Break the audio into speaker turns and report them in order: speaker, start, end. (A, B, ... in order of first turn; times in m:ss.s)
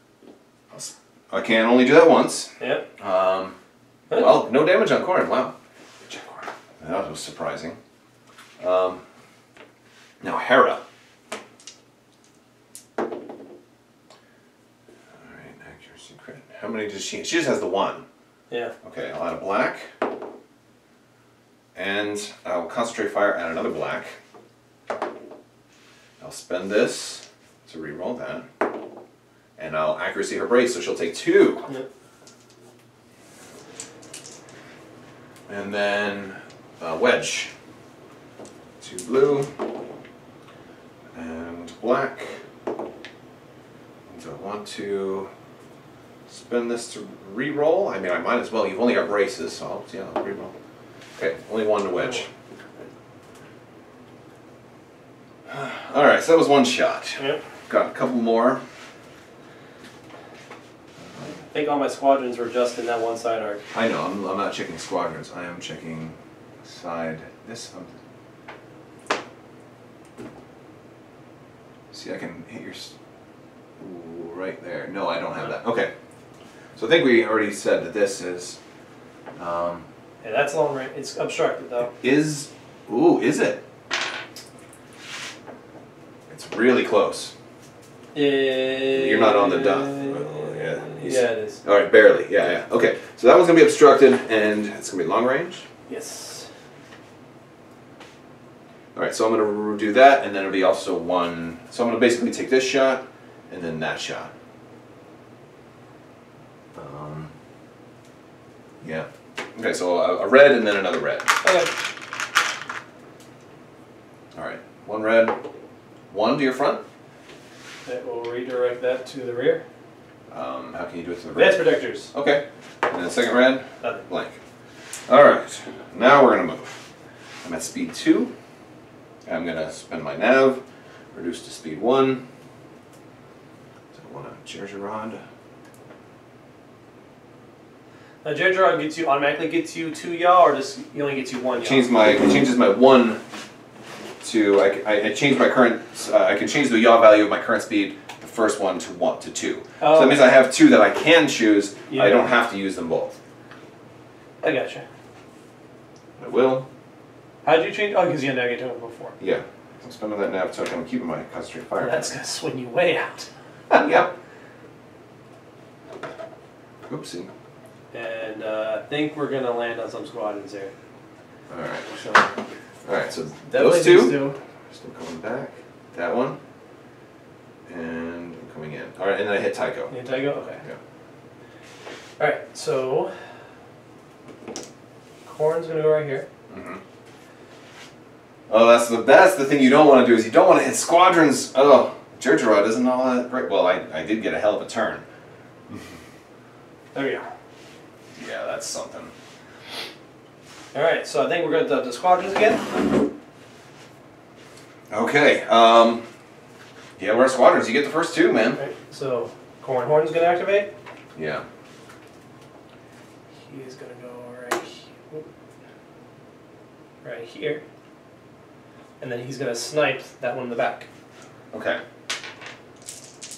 0:00.7-0:03.6 A
0:02.6-0:02.8 B
0:04.1-0:04.4 B
0:04.1-0:07.8 A
0:08.6-0:09.0 A
0:10.2-0:10.8 A
0:15.2-0:18.0 A
0:18.8-0:19.9 A
0:21.7-0:24.2 A
0:26.2-0:28.5 A
0:29.6-0:31.7 A
0:35.5-0:37.5 A
0:38.8-0:39.5 A
0:41.1-0:42.4 A
0:44.1-0:45.3 A
0:46.3-0:50.5 A
0:51.2-0:52.3 A
0:55.4-0:58.6 A
1:01.4-1:03.6 B
1:03.7-1:08.0 A
1:11.9-1:12.9 A
1:13.8-1:15.9 A
1:16.8-1:18.6 A
1:19.4-1:19.8 A
1:20.2-1:21.9 B
1:21.8-1:23.6 A
1:26.3-1:27.3 A
1:28.1-1:31.6 B
1:28.9-1:35.6 A
1:35.9-1:36.5 B
1:38.9-1:44.3 A
1:46.7-1:47.3 A
1:48.8-1:51.4 A
1:51.4-1:51.7 B
1:54.3-1:55.4 A
1:56.1-1:56.8 A
1:57.8-1:59.6 B
2:00.3-2:04.4 A
2:01.3-2:02.1 B
2:05.1-2:06.8 A
2:07.4-2:08.3 A
2:09.2-2:10.6 A
2:11.1-2:12.2 A
2:13.9-2:15.2 A
2:18.2-2:21.9 B
2:21.6-2:23.2 A
2:24.2-2:33.2 A
2:29.8-2:30.3 B
2:31.9-2:32.3 B
2:34.4-2:34.8 B
2:36.2-2:36.7 A
2:37.4-2:39.2 B
2:39.2-2:42.1 A
2:41.8-2:43.3 B
2:43.7-2:44.1 A
2:46.9-2:47.3 A
2:47.9-2:50.7 B
2:51.5-2:52.0 A
2:51.9-2:52.3 B
2:52.8-2:56.4 A
2:53.5-2:54.4 B
2:57.7-2:59.9 A
2:59.9-3:00.6 B
3:02.2-3:03.3 B
3:05.2-3:06.3 B
3:06.5-3:06.8 A
3:08.5-3:15.0 A
3:16.9-3:17.3 B
3:18.2-3:19.1 A
3:20.7-3:22.8 B
3:24.9-3:26.0 A
3:27.0-3:28.6 A
3:28.5-3:30.7 B
3:31.1-3:31.4 A
3:33.4-3:35.3 B
3:37.0-3:37.6 B
3:39.0-3:40.9 B
3:41.5-3:41.8 A